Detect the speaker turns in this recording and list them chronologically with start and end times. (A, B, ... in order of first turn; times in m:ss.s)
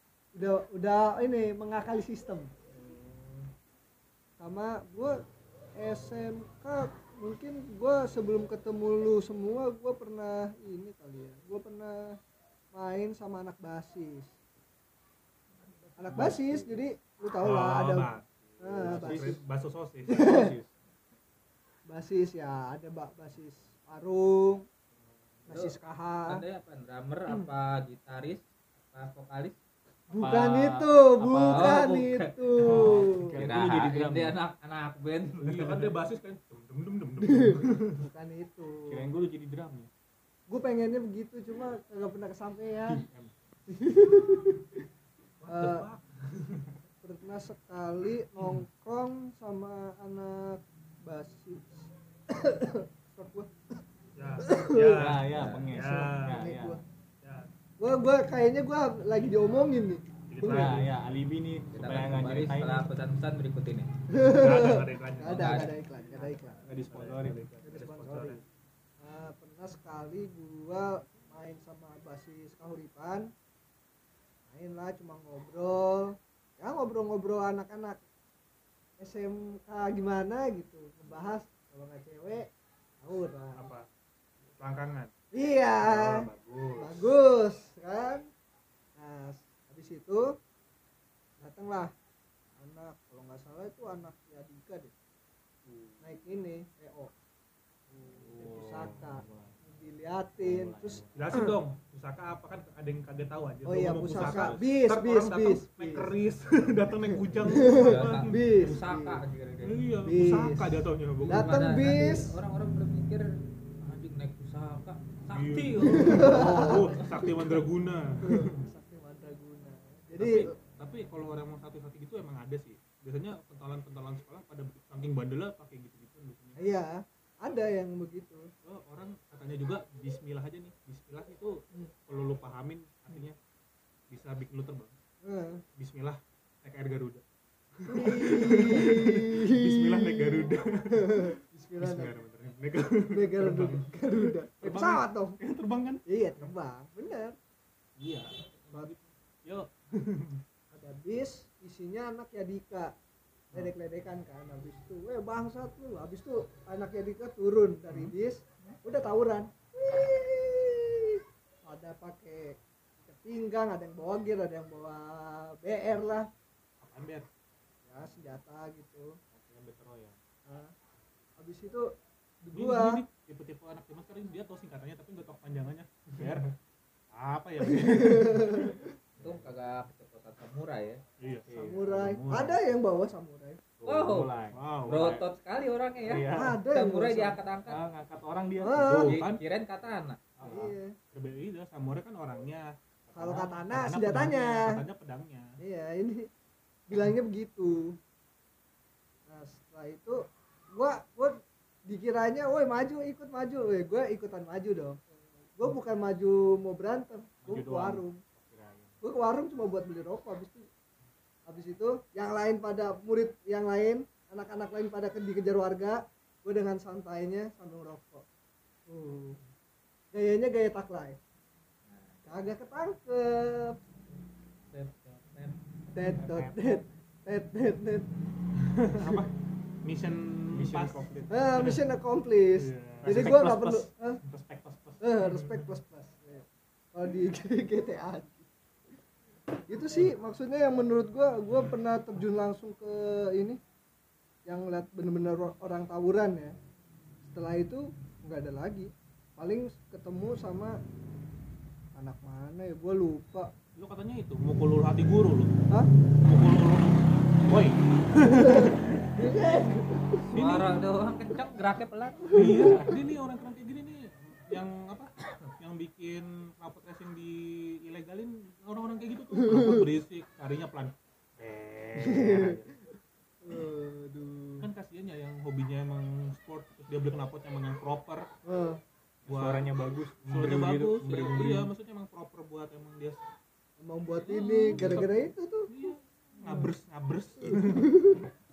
0:00.3-0:02.5 A
0:04.4-0:05.2 A
0:05.8-0:12.2 A
0:12.7-0:14.3 A
0:16.0-0:19.4 A
0:16.1-0:16.7 B
0:17.4-0:20.4 C
0:18.8-0:19.4 B
0:20.1-0:20.5 A
0:20.1-0:20.7 B
0:21.9-0:24.6 A
0:25.5-0:26.4 A
0:25.5-0:29.6 D
0:30.1-0:31.8 B
0:30.1-0:33.4 A
0:31.5-0:35.8 D
0:32.6-0:34.4 B
0:35.4-0:38.0 C
0:37.2-0:39.0 A
0:38.9-0:39.9 B
0:40.5-0:43.0 A
0:42.9-0:43.3 C
0:43.7-0:44.8 A
0:45.4-0:46.7 C
0:45.5-0:45.9 A
0:47.0-0:53.5 A
0:54.2-0:56.4 C
0:54.4-0:55.1 A
0:54.9-0:56.8 B
0:55.2-0:55.7 D
0:56.1-0:56.8 A
0:57.2-0:57.5 C
0:57.8-1:00.0 A
1:00.3-1:00.9 C
1:00.4-1:02.9 B
1:01.7-1:03.9 D
1:04.1-1:06.6 A
1:04.3-1:05.8 C
1:05.2-1:05.7 D
1:06.5-1:07.5 B
1:06.7-1:08.4 C
1:07.6-1:08.4 A
1:09.0-1:13.3 A
1:14.5-1:18.0 A
1:19.0-1:22.5 A
1:23.0-1:23.7 A
1:23.5-1:23.8 C
1:24.6-1:25.1 C
1:25.3-1:28.3 A
1:25.8-1:27.1 C
1:29.0-1:30.3 A
1:31.4-1:31.9 A
1:32.6-1:34.9 A
1:35.7-1:36.0 C
1:36.0-1:37.1 A
1:37.9-1:41.5 A
1:38.0-1:39.6 B
1:40.4-1:41.4 B
1:41.1-1:48.7 C
1:43.6-1:46.1 A
1:44.1-1:44.6 B
1:47.0-1:49.2 A
1:47.6-1:49.8 D
1:49.6-1:51.5 C
1:50.0-1:52.4 A
1:51.3-1:57.0 D
1:55.3-1:58.6 C
1:55.8-1:57.5 A
1:58.2-2:00.5 A
2:00.2-2:06.6 C
2:06.6-2:08.5 A
2:08.6-2:13.4 C
2:14.1-2:14.9 C
2:15.2-2:15.6 A
2:15.8-2:17.2 C
2:17.8-2:23.9 C
2:17.9-2:22.1 A
2:23.1-2:25.4 A
2:24.6-2:26.5 C
2:26.1-2:27.4 A
2:28.0-2:30.4 C
2:30.7-2:32.9 A
2:33.5-2:46.3 A
2:46.8-2:47.2 C
2:47.8-2:49.2 A
2:49.3-2:50.2 B
2:50.4-2:50.7 A
2:51.4-2:51.9 A
2:52.4-2:53.0 A
2:52.5-2:56.5 C
2:57.1-2:58.8 C
2:57.6-2:58.8 A
2:59.2-2:59.5 B
2:59.2-3:01.0 D
3:01.2-3:02.6 C
3:01.4-3:01.8 B
3:01.5-3:03.6 A
3:03.8-3:05.2 B
3:03.8-3:04.3 D
3:04.5-3:05.2 C
3:04.8-3:07.8 D
3:06.0-3:06.6 B
3:06.3-3:07.4 A
3:07.7-3:08.9 B
3:08.6-3:09.2 A
3:08.7-3:09.4 C
3:09.0-3:10.2 D
3:10.4-3:10.7 B
3:10.4-3:11.0 A
3:11.1-3:12.7 C
3:13.1-3:13.5 B
3:13.1-3:14.8 A
3:13.6-3:15.6 C
3:15.6-3:16.3 A
3:16.9-3:18.0 A
3:19.3-3:25.0 A
3:25.6-3:28.2 A
3:27.4-3:29.0 B
3:29.0-3:30.6 A
3:31.4-3:38.2 A
3:38.9-3:39.4 A
3:40.1-3:41.2 A
3:41.8-3:42.4 D
3:42.2-3:43.8 A
3:44.7-3:45.6 D
3:45.9-3:48.1 A
3:46.0-3:46.8 B
3:48.6-3:49.3 C
3:49.8-3:51.8 C
3:50.5-3:51.4 B
3:51.3-3:54.2 A
3:52.6-3:53.4 C
3:53.0-3:55.0 B
3:55.0-3:58.5 A
3:55.2-3:55.5 C
3:59.7-4:03.6 A
4:04.4-4:06.6 A
4:07.2-4:10.8 A
4:11.9-4:13.5 A
4:13.8-4:15.6 C
4:16.2-4:19.1 C
4:18.3-4:20.3 A
4:20.3-4:20.8 C
4:20.3-4:22.7 D
4:22.3-4:32.7 C
4:22.3-4:22.9 A
4:29.3-4:29.9 A
4:32.0-4:32.6 A
4:33.4-4:34.7 A
4:34.6-4:38.3 C
4:38.4-4:38.8 A
4:39.2-4:39.7 C
4:39.2-4:41.7 B
4:40.2-4:43.2 C
4:43.8-4:45.7 A
4:44.2-4:48.1 C
4:44.8-4:45.0 B
4:46.4-4:46.7 A
4:47.4-4:48.2 A